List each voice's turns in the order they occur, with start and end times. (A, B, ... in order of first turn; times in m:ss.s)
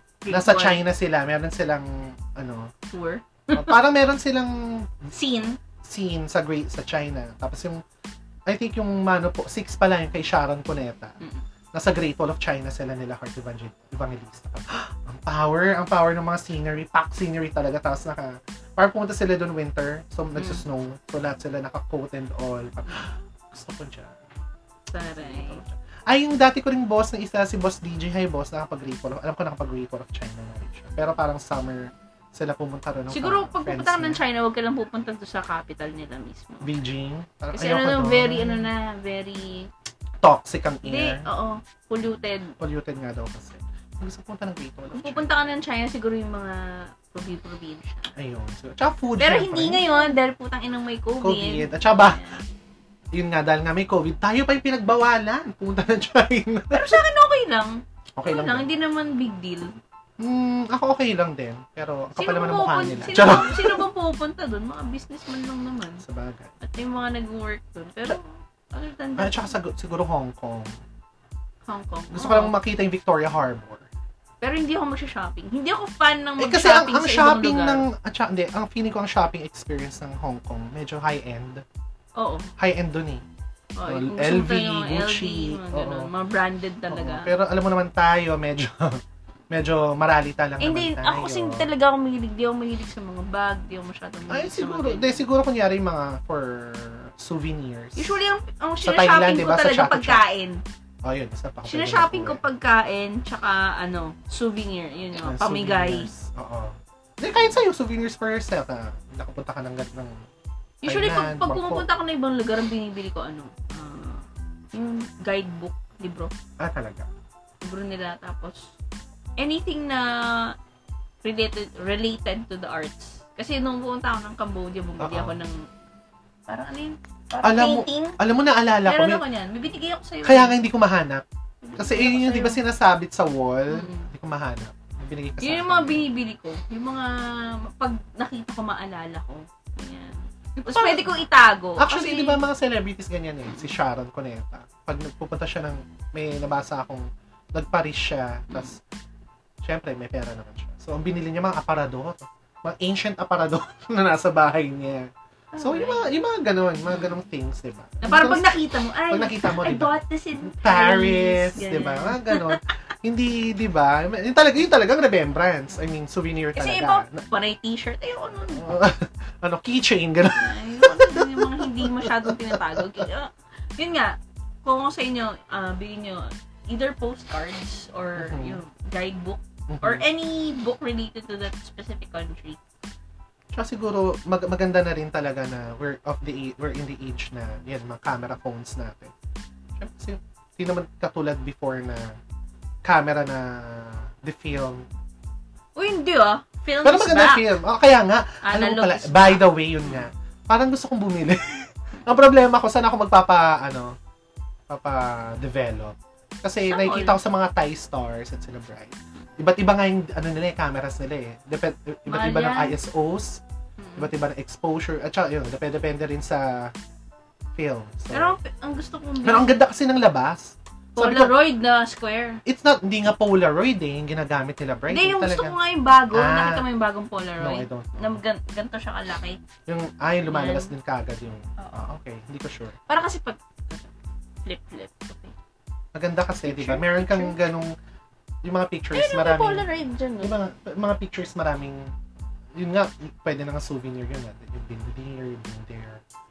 0:00.2-0:00.8 A
0:00.3-0:02.7 B
0:02.9-0:03.8 A
0:03.5-0:05.1 B
0:05.1-0:05.6 A
0:05.8-0:07.8 B
0:08.5-0:11.2 B
0:11.7-0:24.2 B
0:20.4-0:20.6 A
0:24.9-0:25.6 A
0:25.1-0:34.2 B
0:33.1-0:36.7 A
0:36.6-0:38.7 B
0:37.5-0:39.7 A
0:40.2-0:41.3 B
0:40.8-0:42.5 A
0:42.6-0:45.5 B
0:44.9-0:48.1 A
0:48.1-0:49.9 B
0:49.2-0:52.4 A
0:51.2-0:52.4 B
0:53.1-0:56.9 B
0:56.7-0:59.8 A
0:58.2-0:58.7 B
1:00.2-1:03.8 B
1:02.2-1:06.0 A
1:06.0-1:06.5 B
1:06.6-1:09.6 A
1:09.2-1:10.7 B
1:11.6-1:12.5 A
1:12.1-1:13.9 B
1:14.4-1:17.9 A
1:16.4-1:21.6 B
1:22.2-1:22.5 A
1:22.6-1:23.2 B
1:23.8-1:27.3 A
1:23.9-1:26.1 B
1:26.9-1:31.7 B
1:30.6-1:35.2 A
1:34.3-1:38.2 B
1:38.0-1:40.6 A
1:38.8-1:40.2 B
1:41.0-1:42.4 B
1:41.6-1:46.1 A
1:45.2-1:50.2 B
1:50.8-1:56.3 A
1:50.8-1:51.8 B
1:56.6-1:57.1 B
1:57.6-1:58.7 A
1:59.4-2:00.5 A
2:01.2-2:05.6 A
2:05.0-2:05.4 B
2:06.5-2:08.2 A
2:07.4-2:09.2 B
2:08.8-2:10.6 A
2:10.2-2:11.2 B
2:11.6-2:12.6 A
2:11.8-2:16.0 B
2:13.7-2:14.1 A
2:15.4-2:22.4 A
2:20.6-2:21.1 B
2:21.8-2:28.8 B
2:23.5-2:23.7 A
2:29.6-2:38.6 B
2:35.5-2:36.1 A
2:38.0-2:42.6 A
2:39.1-2:47.2 B
2:46.5-2:48.7 A
2:48.5-2:53.1 B
2:50.4-3:02.6 A
2:58.2-2:58.6 B
2:59.7-3:00.0 B
3:03.5-3:09.1 B
3:09.8-3:12.1 B
3:12.8-3:14.8 B
3:15.8-3:17.5 A
3:16.8-3:23.9 B
3:18.4-3:20.1 A
3:24.7-3:33.4 B
3:26.7-3:27.2 A
3:32.1-3:32.8 A
3:33.8-3:34.1 A
3:34.0-3:36.7 B
3:37.5-3:38.4 B
3:38.1-3:39.6 A
3:39.2-3:41.3 B
3:41.0-3:42.4 A
3:42.4-3:45.6 B
3:44.9-3:49.4 A
3:46.1-3:46.6 B
3:47.4-3:48.2 B
3:49.7-3:52.8 B
3:50.3-3:50.7 A
3:51.6-3:51.8 A
3:52.9-3:53.9 A
3:54.4-3:55.3 A
3:55.9-3:57.7 B
3:56.4-3:57.4 A
3:58.4-3:59.6 B
3:58.9-4:00.3 A
4:00.2-4:01.9 B
4:02.6-4:06.0 B